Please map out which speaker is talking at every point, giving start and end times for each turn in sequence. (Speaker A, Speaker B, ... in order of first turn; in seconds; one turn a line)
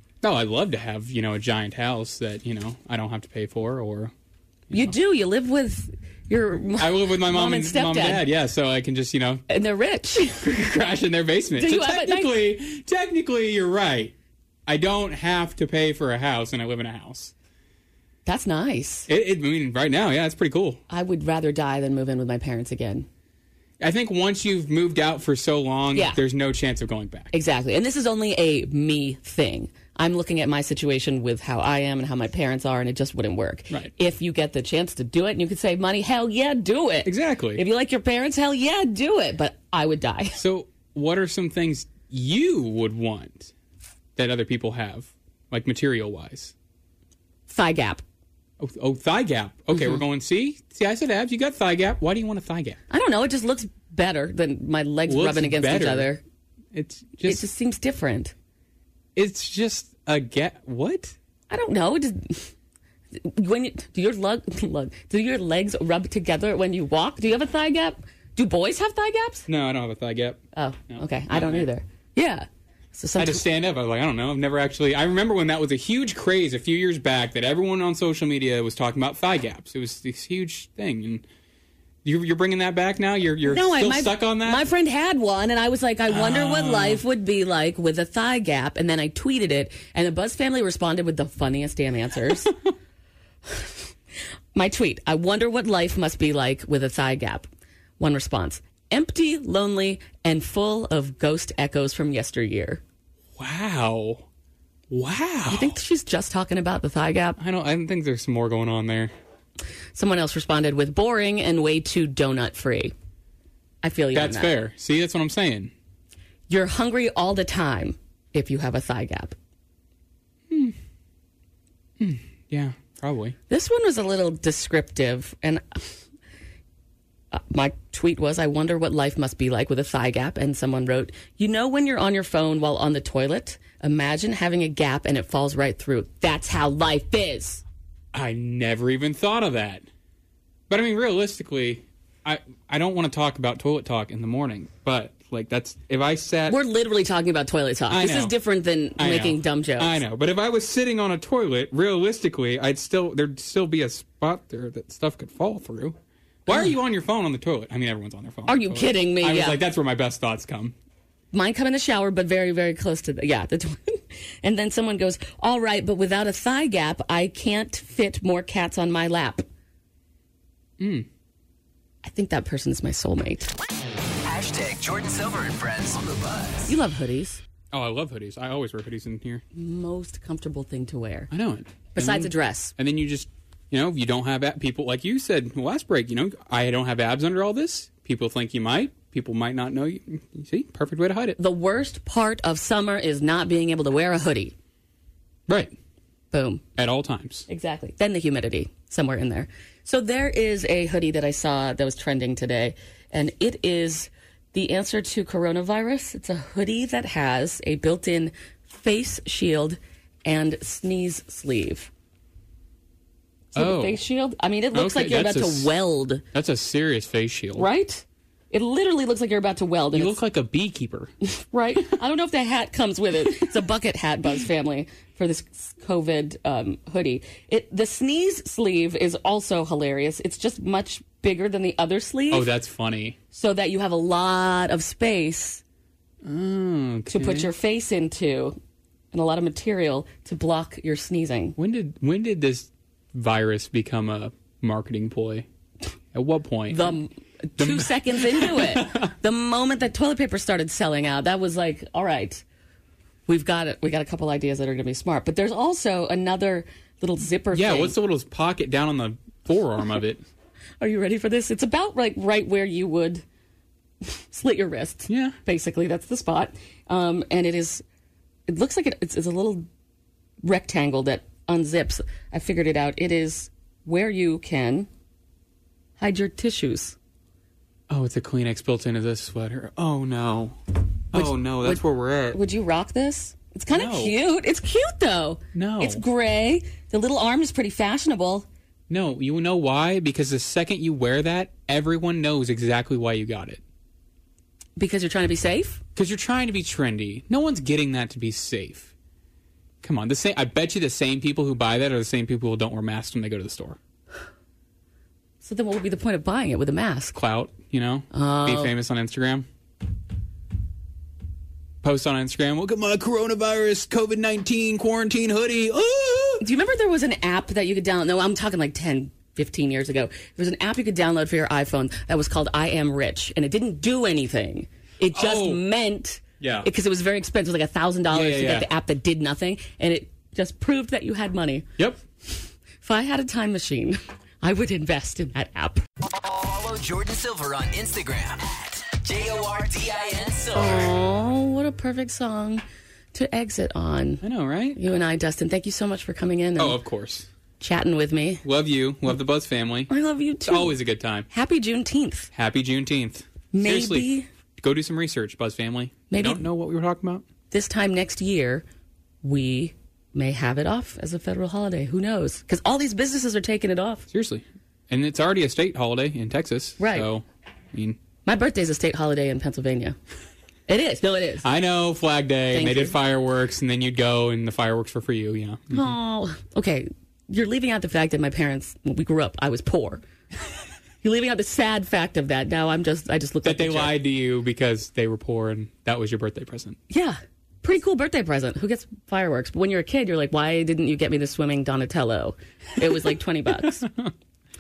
Speaker A: 0.2-4.1
Speaker B: 4.7-8.2
Speaker A: 6.8-9.4
Speaker B: 9.5-10.4
Speaker A: 10.4-14.1
Speaker B: 11.6-12.3
Speaker A: 14.7-17.3
Speaker B: 18.2-19.1
Speaker A: 19.1-20.8
Speaker B: 20.9-23.1
Speaker A: 23.8-27.3
Speaker B: 27.3-40.4
Speaker A: 37.0-37.6
Speaker A: 40.4-43.5
Speaker A: 44.1-46.5
Speaker B: 47.5-48.0
Speaker A: 48.6-52.8
Speaker B: 49.7-50.0
Speaker B: 52.9-56.2
Speaker A: 55.1-56.1
Speaker A: 56.7-57.4
Speaker B: 57.2-58.3
Speaker A: 59.1-61.1
Speaker B: 61.5-62.5
Speaker B: 63.1-69.5
Speaker A: 69.5-71.7
Speaker B: 70.5-73.4
Speaker A: 73.2-81.2
Speaker A: 82.0-84.6
Speaker B: 83.5-92.5
Speaker A: 86.1-87.0
Speaker B: 94.5-97.5
Speaker B: 98.0-102.8
Speaker A: 103.4-104.2
Speaker A: 104.9-105.8
Speaker B: 105.5-107.4
Speaker A: 107.4-109.1
Speaker B: 109.9-112.9
Speaker B: 113.8-114.5
Speaker A: 114.1-115.7
Speaker B: 116.5-119.3
Speaker A: 120.5-120.7
Speaker A: 122.0-123.3
Speaker B: 123.5-125.9
Speaker B: 127.3-137.6
Speaker A: 138.1-139.8
Speaker A: 140.7-146.6
Speaker B: 146.5-150.0
Speaker A: 147.9-148.3
Speaker A: 149.0-160.7
Speaker B: 156.5-156.7
Speaker B: 158.5-159.6
Speaker B: 161.3-169.4
Speaker A: 170.8-171.1
Speaker B: 172.0-173.5
Speaker C: 174.2-176.7
Speaker B: 176.7-177.4
Speaker A: 177.7-179.4
Speaker B: 179.5-181.3
Speaker A: 181.3-191.4
Speaker B: 181.9-182.7
Speaker B: 191.4-194.5
Speaker A: 195.5-195.7
Speaker B: 196.3-196.6
Speaker A: 196.8-197.5
Speaker B: 197.5-211.9
Speaker B: 213.5-216.2
Speaker A: 213.5-214.0
Speaker A: 214.7-215.7
Speaker A: 216.3-217.7
Speaker B: 217.5-220.2
Speaker A: 219.9-221.1
Speaker B: 221.5-232.5
Speaker A: 232.3-233.2
Speaker B: 233.3-235.6
Speaker A: 236.2-237.5
Speaker B: 237.1-238.6
Speaker B: 239.1-241.6
Speaker A: 241.6-245.4
Speaker A: 246.1-246.9
Speaker B: 246.7-252.4
Speaker A: 247.6-249.1
Speaker B: 253.3-257.9
Speaker A: 257.5-260.2
Speaker B: 260.8-263.2
Speaker B: 264.3-267.8
Speaker A: 265.1-265.4
Speaker B: 268.5-269.6
Speaker B: 270.4-274.9
Speaker B: 276.0-276.9
Speaker A: 277.9-280.6
Speaker A: 281.1-282.4
Speaker B: 281.1-288.5
Speaker A: 283.7-284.1
Speaker A: 285.5-286.0
Speaker A: 288.9-293.6
Speaker B: 294.8-295.8
Speaker A: 295.9-298.9
Speaker A: 299.8-303.8
Speaker B: 305.4-307.1
Speaker A: 307.1-309.4
Speaker B: 308.1-308.7
Speaker A: 311.8-316.4
Speaker B: 316.4-331.7
Speaker A: 325.1-325.6
Speaker A: 326.4-326.7
Speaker A: 328.1-328.7
Speaker B: 332.8-335.8
Speaker C: 336.0-340.9
Speaker B: 340.5-344.2
Speaker A: 344.2-344.8
Speaker B: 344.7-346.8
Speaker A: 346.6-347.3
Speaker B: 347.6-348.4
Speaker A: 348.4-349.9
Speaker B: 349.9-350.7
Speaker A: 350.4-351.3
Speaker B: 351.3-352.3
Speaker A: 352.3-357.2
Speaker B: 353.5-354.2
Speaker B: 356.1-356.4
Speaker B: 357.5-358.6
Speaker B: 359.2-364.0
Speaker A: 364.1-368.0
Speaker B: 366.8-367.1
Speaker B: 368.2-369.9
Speaker B: 370.7-371.4
Speaker A: 371.4-375.9
Speaker B: 372.5-372.9
Speaker B: 375.7-380.0
Speaker B: 381.0-383.9
Speaker A: 383.4-386.8
Speaker B: 386.9-393.9
Speaker A: 393.8-394.1